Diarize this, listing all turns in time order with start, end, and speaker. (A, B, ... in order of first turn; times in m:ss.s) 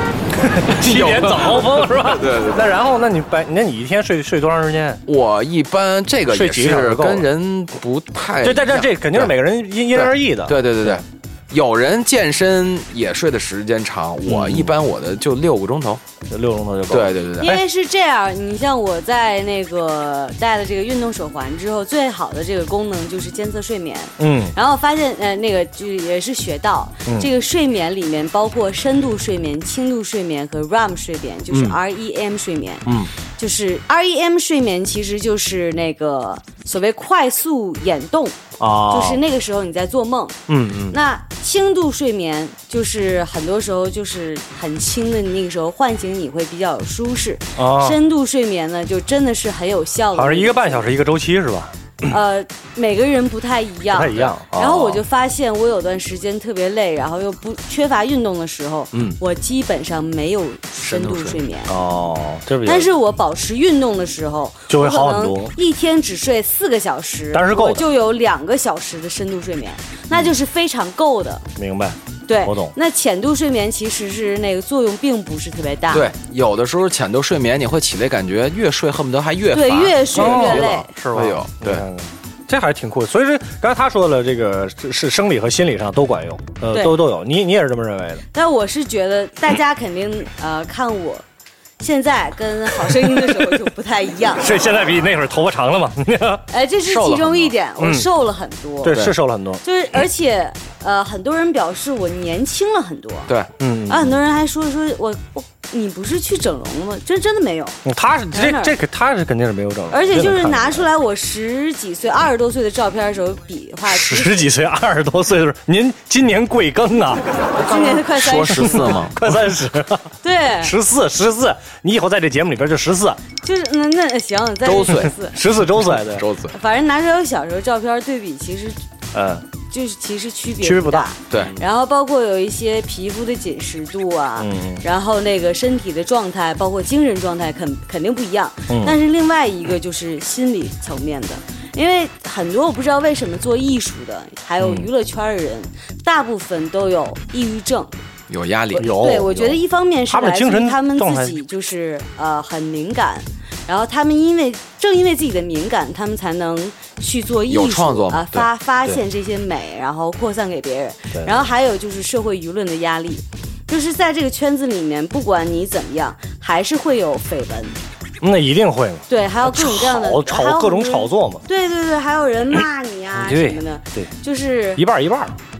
0:00.4-0:05.0 A
0:00.7-0:02.7 B
0:05.0-0:09.3 B
0:06.3-0:07.3 A
0:08.4-0:11.0 A
0:09.9-0:16.0 B
0:14.2-0:14.7 A
0:16.3-0:17.6 A
0:16.9-0:17.6 B
0:17.4-0:40.4 C
0:24.2-0:24.5 A
0:32.9-0:33.1 A
0:38.6-0:39.2 A
0:40.5-0:41.0 A
0:40.9-0:50.9 C
0:47.6-0:48.0 A
0:50.1-0:52.1 A
0:52.0-1:01.7 C
0:53.9-0:55.0 A
1:00.8-1:01.4 B
1:01.7-1:02.9 A
1:02.6-1:11.4 C
1:04.7-1:05.5 A
1:07.3-1:07.8 A
1:11.6-1:12.7 A
1:12.3-1:16.1 C
1:15.9-1:21.9 B
1:19.5-1:20.9 C
1:20.1-1:28.2 A
1:26.7-1:27.0 C
1:28.3-1:31.2 C
1:31.8-1:34.5 C
1:33.1-1:33.5 A
1:34.4-1:36.4 A
1:36.5-1:39.1 C
1:36.8-1:37.5 B
1:37.8-1:38.1 A
1:38.8-1:39.6 A
1:38.9-1:39.2 B
1:39.6-1:43.3 C
1:43.3-1:43.5 B
1:43.6-1:44.2 A
1:43.9-1:47.8 C
1:47.8-1:50.9 A
1:48.3-1:48.7 C
1:49.9-1:54.5 C
1:53.9-1:57.2 A
1:57.6-1:58.9 C
1:57.6-1:59.4 B
1:58.5-2:03.2 A
2:00.2-2:00.7 C
2:03.4-2:05.4 C
2:04.6-2:05.1 B
2:05.3-2:06.3 A
2:06.0-2:06.5 B
2:06.5-2:08.8 C
2:09.1-2:09.4 A
2:09.7-2:27.9 C
2:10.6-2:11.1 A
2:11.3-2:11.6 B
2:14.4-2:14.8 A
2:18.7-2:19.0 A
2:28.3-2:28.9 B
2:28.8-2:47.8 C
2:28.8-2:29.6 A
2:30.1-2:31.3 A
2:37.5-2:38.5 B
2:48.2-2:51.4 A
2:49.1-2:54.8 C
2:52.6-2:54.1 A
2:54.8-2:55.4 A